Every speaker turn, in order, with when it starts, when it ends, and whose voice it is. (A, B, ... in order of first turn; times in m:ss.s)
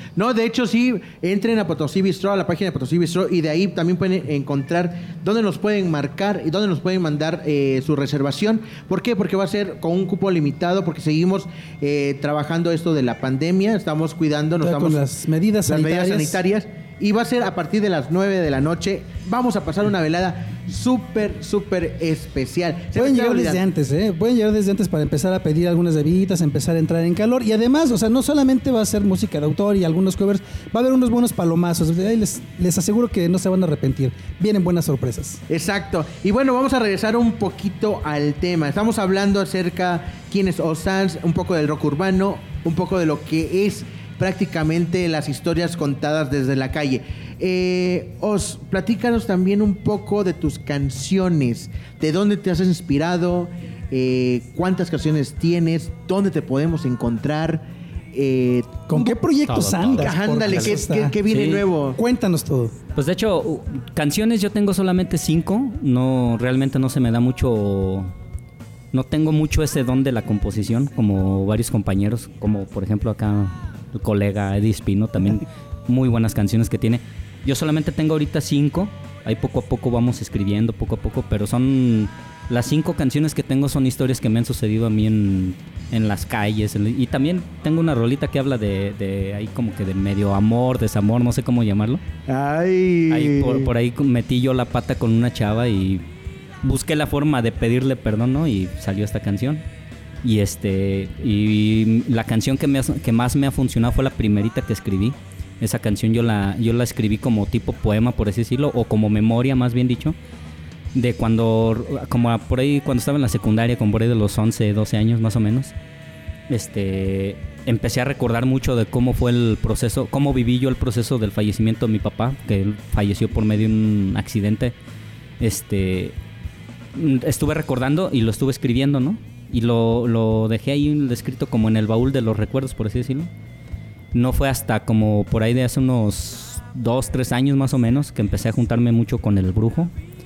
0:00.2-0:15.0 A
0:14.6-0:16.4 B
0:15.7-0:23.6 A
0:23.0-0:35.4 B
0:35.5-0:59.1 A
0:58.9-1:01.2 B
0:59.4-1:01.6 C
0:59.9-1:02.0 A
1:02.0-1:02.7 B
1:03.0-1:08.1 C
1:08.9-1:32.0 C
1:32.3-1:33.7 A
1:33.1-1:36.0 C
1:36.6-1:39.6 C
1:40.2-1:50.2 C
1:50.9-1:55.7 C
1:56.5-2:04.7 C
2:05.4-2:06.1 C
2:06.9-2:13.3 C
2:14.1-2:19.9 C